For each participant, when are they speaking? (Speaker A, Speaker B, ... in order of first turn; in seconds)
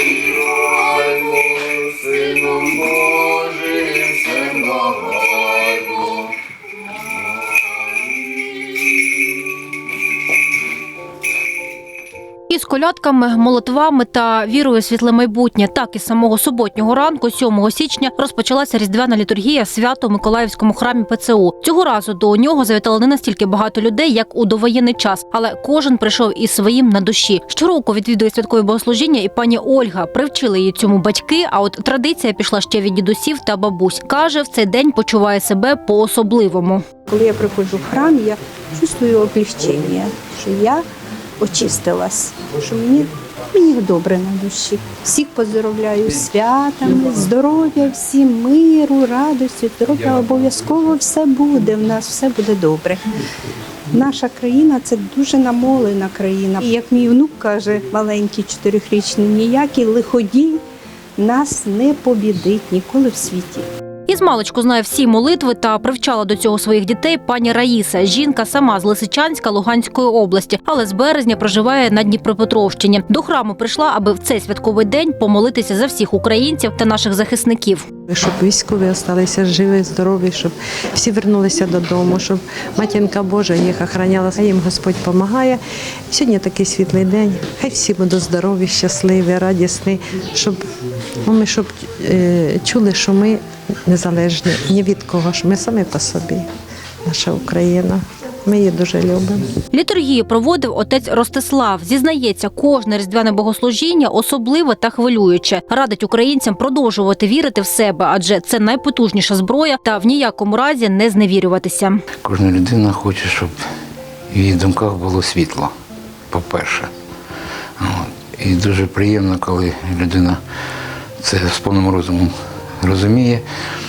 Speaker A: 0.4-0.9, 1.5-5.7, 112.2-113.5, 114.3-115.7, 116.3-116.9, 117.8-120.4, 121.2-123.4
Speaker B: 12.5-36.8, 64.1-77.8, 99.7-112.0
Speaker C: 37.1-40.8, 41.4-53.0, 53.9-60.6, 61.2-63.7
Speaker D: 78.1-85.6, 86.1-90.6, 91.2-96.4, 97.0-99.5